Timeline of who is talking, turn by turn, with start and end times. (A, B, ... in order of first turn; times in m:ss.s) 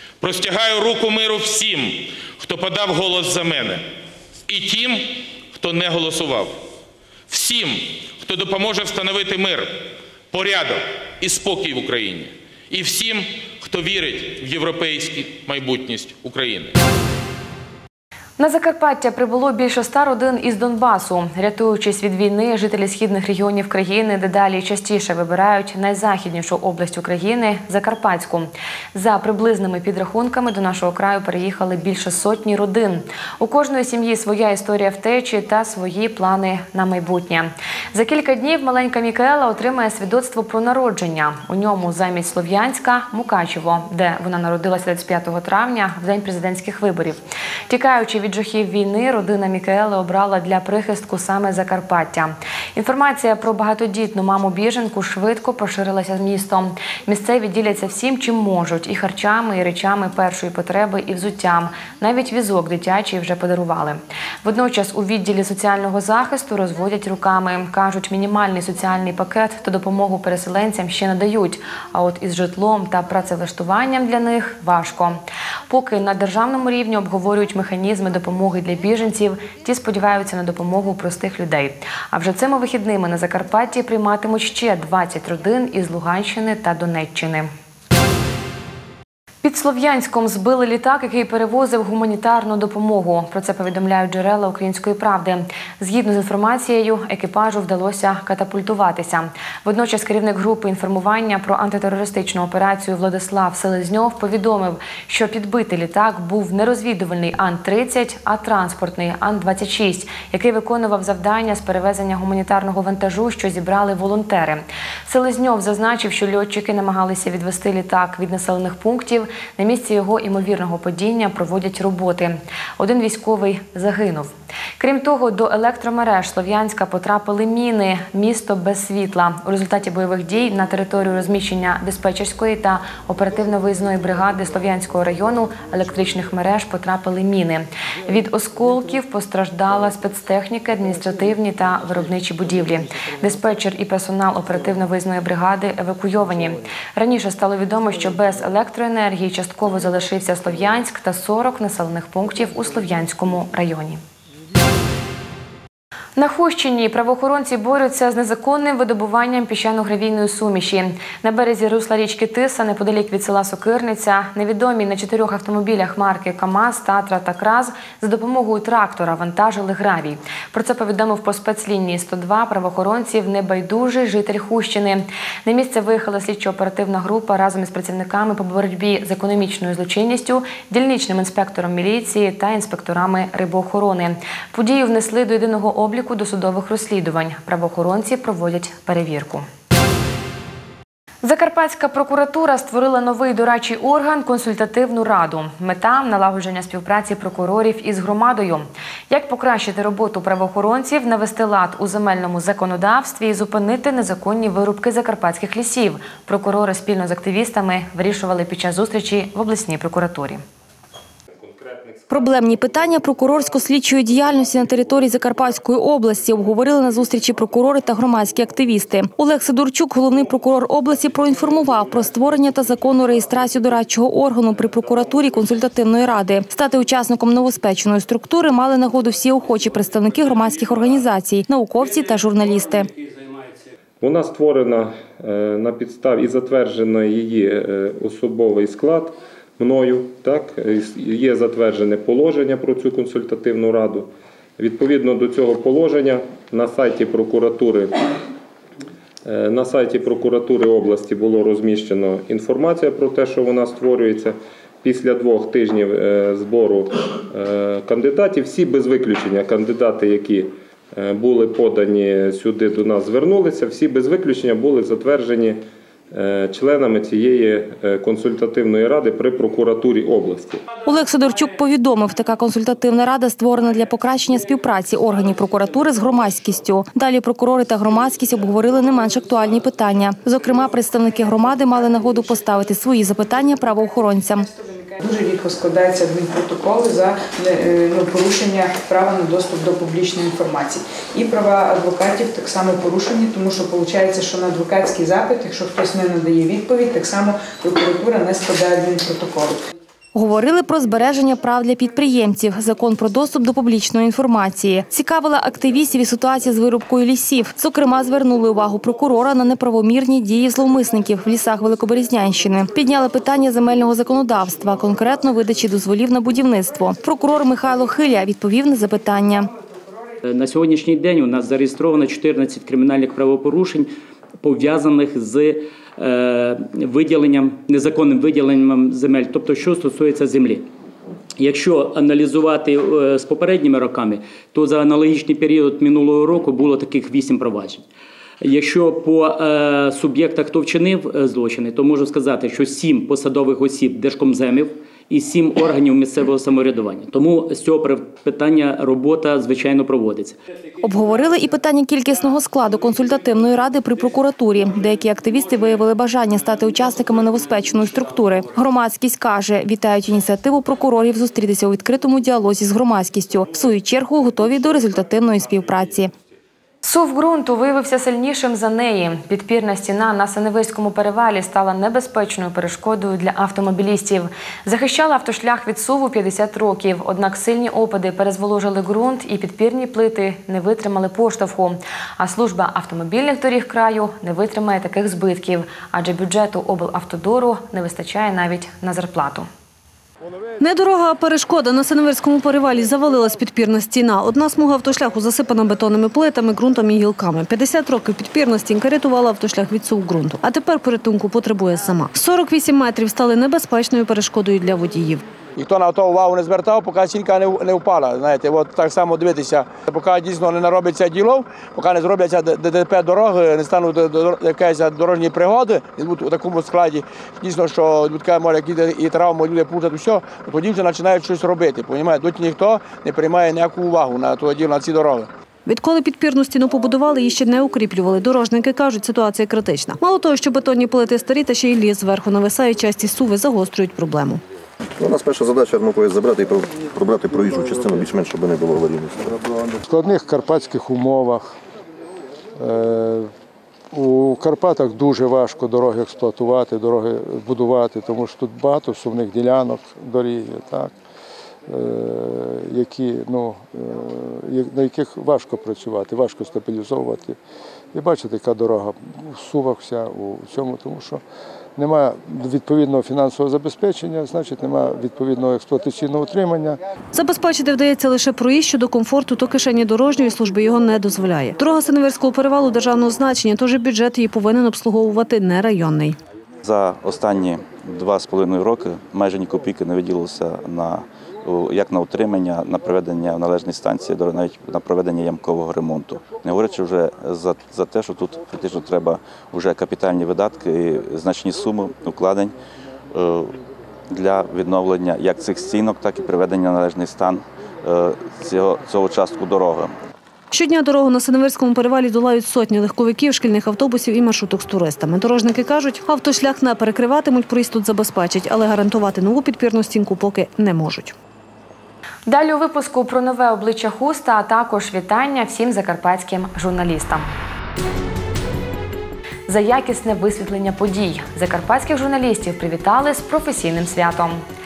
0:00.2-0:03.8 A
0:04.5-0:06.6 A
0:07.3-0:16.7 A
0:18.4-1:27.5 B
1:29.4-2:34.0 B
2:36.2-3:09.4 B
3:11.2-3:30.4 B
3:31.4-3:32.1 C
3:32.1-3:52.9 D
3:54.0-4:08.0 C
4:09.2-4:30.6 C
4:30.8-4:44.5 D
4:44.5-4:59.6 E
5:00.1-5:19.5 D
5:20.2-5:30.7 F
5:31.4-5:37.8 F
5:38.4-5:50.4 F
5:50.8-6:06.1 D
6:06.8-6:29.5 B
6:30.6-6:45.2 G
6:45.6-7:05.3 H
7:05.6-7:14.4 G
7:14.8-7:19.8 I
7:19.8-7:21.5 J
7:22.6-7:23.3 J
7:23.9-7:30.9 J
7:31.7-7:37.4 J
7:37.9-7:41.2 J
7:41.8-7:46.8 J
7:47.1-7:56.2 G
7:56.6-8:12.5 K
8:13.1-8:19.9 K
8:20.5-8:31.1 G
8:32.3-8:37.3 B
8:39.5-8:44.4 B